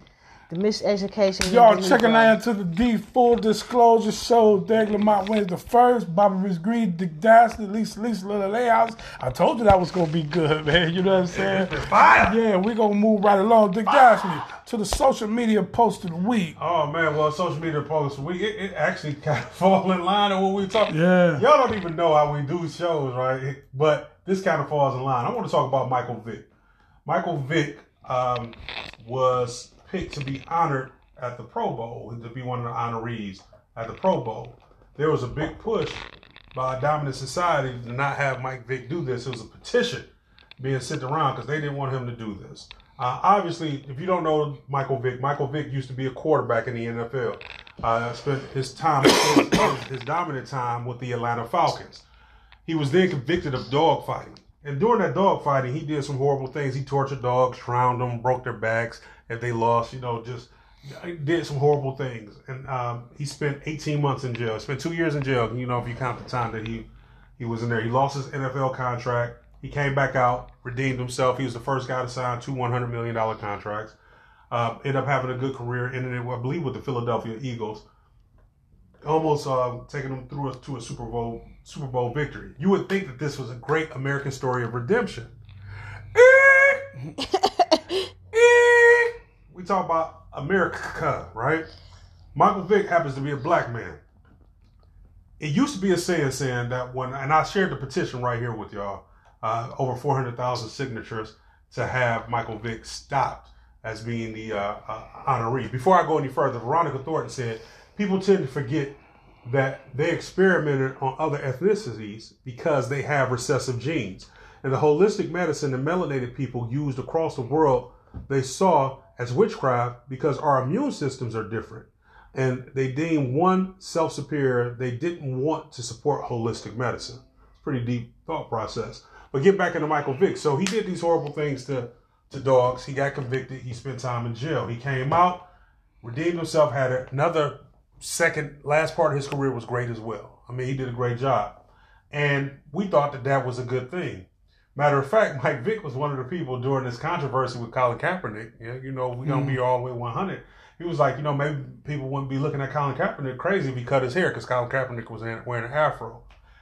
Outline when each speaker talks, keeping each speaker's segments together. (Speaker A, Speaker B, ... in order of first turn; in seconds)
Speaker A: 0.5-2.3, 87.2-88.1
Speaker B: 1.4-16.6, 20.9-21.4, 149.2-149.6
Speaker C: 11.3-12.4, 16.6-26.5, 27.0-52.0, 52.6-66.9, 67.4-74.0, 74.5-77.8, 79.0-85.3, 86.1-86.9, 88.3-91.7, 92.3-94.0, 95.4-135.5, 136.0-156.2